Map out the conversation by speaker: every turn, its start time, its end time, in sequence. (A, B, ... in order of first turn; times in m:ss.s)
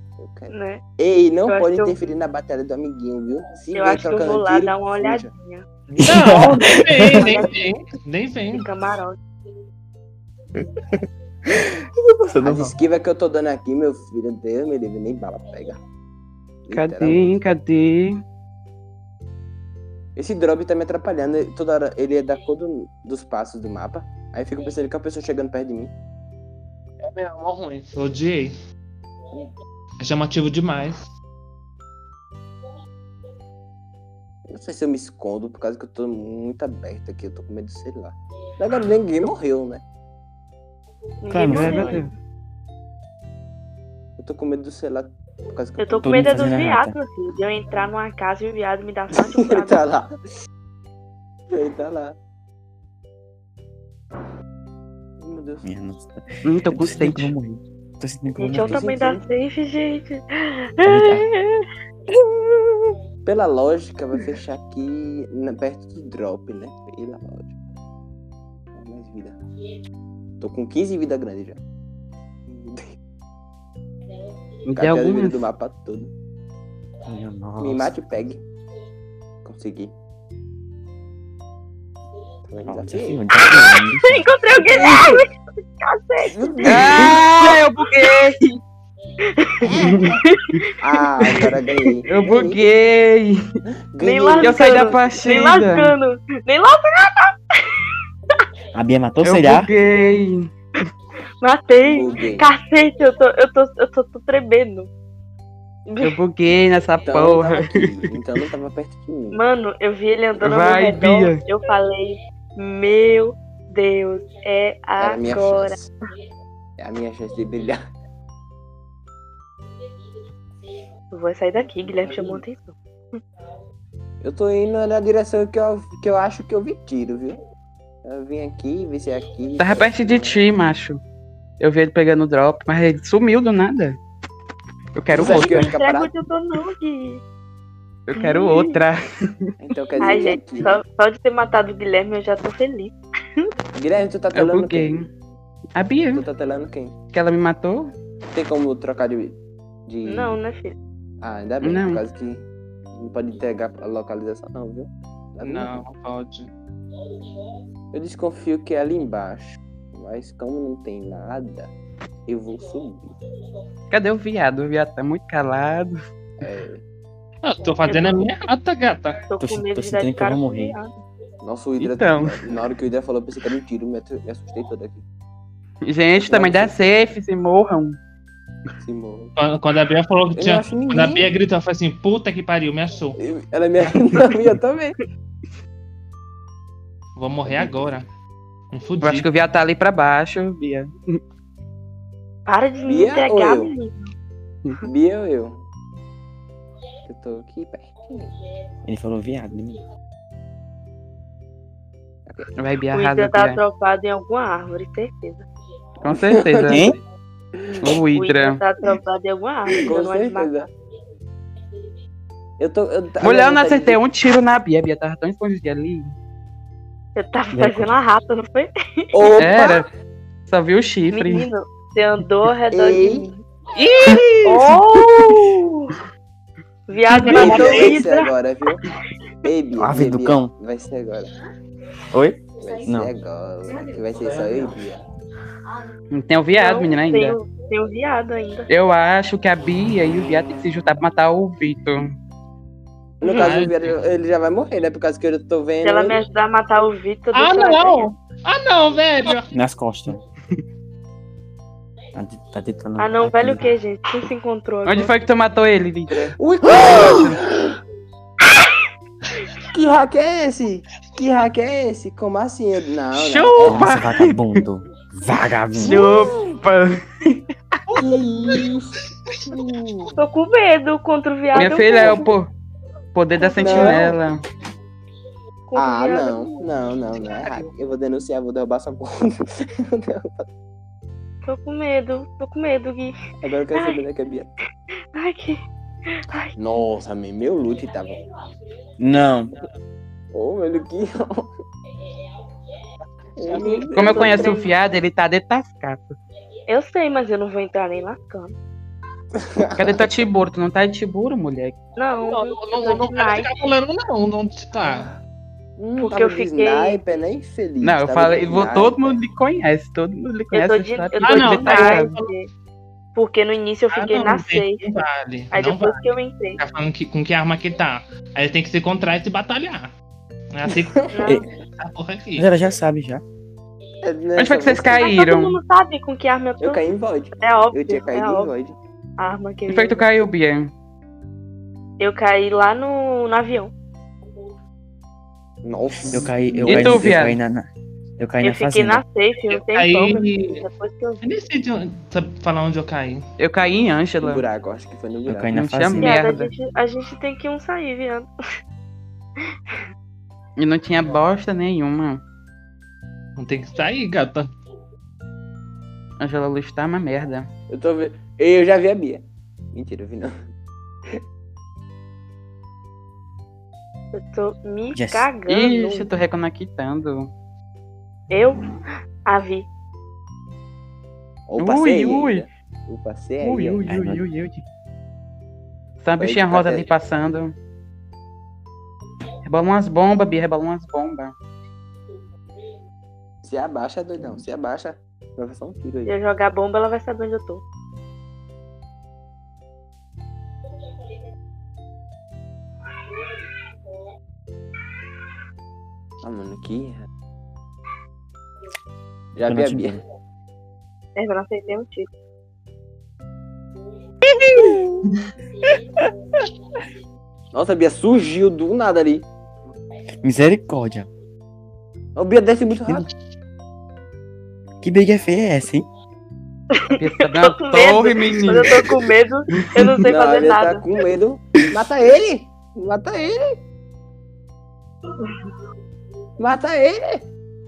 0:00.2-0:05.3 A
0:00.5-0:00.8 B
0:01.5-0:01.9 B
0:03.8-0:05.7 B
0:06.0-0:07.3 C
0:06.0-0:08.6 D
0:07.1-0:07.8 B
0:08.5-0:09.2 B
0:11.5-0:12.8 C
0:12.4-0:15.8 A
0:16.6-0:17.4 A
0:16.7-0:18.2 E
0:20.2-0:25.9 A
0:27.0-0:28.5 D
0:30.0-0:31.1 D
0:34.5-0:39.8 A
0:41.2-0:42.1 B
0:41.3-0:42.1 C
0:41.5-0:42.1 E
0:44.2-0:46.5 A
0:45.8-0:49.8 B
0:46.0-0:47.0 C
0:49.3-0:50.1 A
0:51.5-0:52.2 A
0:55.2-0:55.6 A
0:55.6-0:58.9 C
0:56.4-0:57.3 E
0:58.4-1:01.7 B
0:58.5-0:59.2 A
1:00.8-1:01.3 C
1:03.2-1:07.6 A
1:08.7-1:09.4 A
1:10.4-1:11.6 A
1:12.5-1:12.9 A
1:14.7-1:15.4 E
1:14.7-1:16.1 A
1:17.1-1:18.0 C
1:17.6-1:18.4 A
1:19.4-1:19.9 A
1:22.5-1:23.2 A
1:22.6-1:24.2 C
1:24.0-1:27.6 B
1:24.6-1:25.2 A
1:26.2-1:27.2 A
1:26.6-1:28.6 E
1:29.2-1:30.7 B
1:29.6-1:30.2 A
1:29.8-1:30.1 E
1:30.8-1:32.6 A
1:31.3-1:31.8 B
1:32.1-1:33.4 E
1:33.9-1:35.2 A
1:34.0-1:37.8 B
1:34.4-1:36.0 E
1:38.7-1:39.7 C
1:39.2-1:40.5 E
1:41.4-1:44.9 B
1:41.8-1:42.5 A
1:45.9-1:46.2 B
1:46.0-1:48.0 E
1:47.1-1:49.4 A
1:49.3-1:55.8 B
1:50.4-1:51.4 E
1:55.0-1:55.9 A
1:56.8-1:57.8 A
2:01.1-2:02.8 B
2:01.8-2:02.4 A
2:04.2-2:07.4 A
2:08.0-2:10.4 A
2:09.6-2:11.0 E
2:11.6-2:14.0 E
2:15.0-2:15.7 E
2:15.1-2:16.1 A
2:15.1-2:15.7 D
2:15.3-2:17.2 B
2:18.1-2:19.5 E
2:18.2-2:18.8 B
2:19.6-2:20.8 A
2:20.0-2:23.5 B
2:23.8-2:25.0 A
2:24.3-2:25.1 E
2:25.8-2:26.3 E
2:26.1-2:27.0 A
2:27.1-2:27.9 E
2:28.3-2:30.4 A
2:30.0-2:30.8 B
2:31.2-2:35.8 A
2:31.6-2:32.0 E
2:35.4-2:36.5 D
2:37.9-2:41.7 A
2:42.3-2:43.1 A
2:43.9-2:46.0 E
2:46.4-2:46.8 A
2:47.4-2:49.2 D
2:47.9-2:48.3 B
2:49.3-2:50.9 B
2:49.4-2:50.8 C
2:51.4-2:55.0 A
2:51.8-2:52.4 E
2:55.8-2:58.0 E
2:56.1-2:56.8 A
2:58.8-2:59.3 A
2:59.4-3:03.2 D
3:00.4-3:01.3 A
3:03.2-3:05.0 A
3:07.2-3:08.1 D
3:07.5-3:08.0 A
3:08.7-3:09.3 D
3:09.0-3:11.2 E
3:12.5-3:14.1 B
3:12.9-3:13.7 A
3:14.8-3:15.6 A
3:17.0-3:18.3 A
3:18.9-3:19.8 C
3:22.6-3:23.6 E
3:22.9-3:25.5 B
3:26.0-3:26.9 E
3:26.1-3:27.0 A
3:26.6-3:27.0 C
3:27.6-3:28.0 A
3:27.8-3:28.6 E
3:28.1-3:30.6 B
3:29.8-3:30.7 A
3:32.6-3:34.0 A
3:33.2-3:36.1 E
3:37.2-3:39.4 B
3:37.5-3:37.9 C
3:39.1-3:39.8 A
3:39.4-3:39.9 E
3:40.5-3:41.5 E
3:41.1-3:43.4 B
3:42.7-3:43.3 A
3:43.8-3:45.2 E
3:44.4-3:46.0 B
3:46.9-3:48.8 B
3:47.1-3:48.0 D
3:47.3-3:48.8 A
3:49.4-3:51.4 A
3:49.8-3:50.5 C
3:52.1-3:53.1 C
3:52.6-3:55.0 A
3:56.1-3:57.4 E
3:56.5-3:58.7 B
3:58.7-4:02.1 E
4:03.2-4:06.2 A
4:03.2-4:03.6 B
4:03.3-4:04.0 D
4:05.8-4:08.1 B
4:07.3-4:09.5 D
4:09.5-4:10.2 C
4:12.2-4:13.7 C
4:13.0-4:15.2 B
4:14.8-4:17.4 E
4:16.3-4:17.8 A
4:19.6-4:23.9 A
4:23.1-4:24.6 E
4:23.6-4:26.1 C
4:25.8-4:27.4 E
4:25.8-4:26.5 A
4:27.9-4:30.2 A
4:30.2-4:32.3 B
4:31.5-4:32.5 E
4:31.6-4:32.2 A
4:33.1-4:34.4 E
4:33.4-4:34.1 B
4:33.6-4:34.2 A
4:35.7-4:36.9 B
4:35.8-4:40.5 A
4:41.4-4:43.1 B
4:43.4-4:44.5 A
4:43.7-4:44.0 B
4:45.1-4:46.5 B
4:46.6-4:48.2 A
4:49.0-4:49.5 C
4:50.3-4:51.5 A
4:53.4-4:54.6 A
4:53.6-4:54.7 B
4:53.9-4:56.2 E
4:56.7-4:58.5 B
4:59.4-5:00.3 A
4:59.8-5:01.8 E
5:02.0-5:03.7 B
5:02.3-5:05.1 D
5:05.8-5:09.2 A
5:06.0-5:07.0 B
5:07.8-5:12.1 E
5:10.5-5:12.5 B
5:11.2-5:12.3 D
5:13.2-5:14.8 B
5:13.9-5:16.0 D
5:15.5-5:16.6 B
5:16.6-5:19.9 D
5:20.5-5:21.1 D
5:20.7-5:21.4 A
5:21.1-5:21.4 B
5:21.8-5:22.5 D
5:22.4-5:23.2 C
5:24.0-5:25.0 A
5:24.4-5:25.6 E
5:24.9-5:26.8 B
5:26.6-5:28.8 A
5:27.4-5:28.5 B
5:29.2-5:30.1 B
5:29.7-5:30.7 E
5:32.0-5:33.7 B
5:35.6-5:37.2 A
5:36.1-5:37.7 C
5:36.6-5:37.4 E
5:38.2-5:39.0 C
5:38.4-5:41.2 B
5:39.5-5:40.6 D
5:41.2-5:43.2 D
5:43.4-5:44.4 E
5:44.2-5:45.6 A
5:45.3-5:46.2 C
5:45.5-5:46.5 E
5:46.0-5:48.3 B
5:50.6-5:52.2 E
5:53.4-5:54.5 D
5:56.2-5:57.5 E
5:57.7-6:00.3 A
6:04.1-6:06.1 B
6:05.0-6:05.3 C
6:05.5-6:07.3 E
6:08.3-6:08.7 B
6:09.3-6:09.7 B
6:11.5-6:13.9 A
6:11.6-6:12.5 E
6:13.4-6:14.6 E
6:13.9-6:14.2 C
6:16.0-6:17.6 E
6:16.2-6:16.9 A
6:19.4-6:21.4 E
6:23.4-6:26.1 A
6:26.1-6:27.6 B
6:36.2-6:37.1 A
6:39.4-6:40.0 A
6:39.4-6:40.0 C
6:41.2-6:42.1 B
6:44.5-6:45.0 A
6:47.5-6:49.3 A
6:50.2-6:51.1 C
6:52.2-6:53.1 A
6:54.8-6:55.9 C
6:56.7-7:00.8 B
6:57.0-6:59.0 E
6:59.6-7:00.1 E
7:00.1-7:03.6 A
7:06.4-7:07.2 A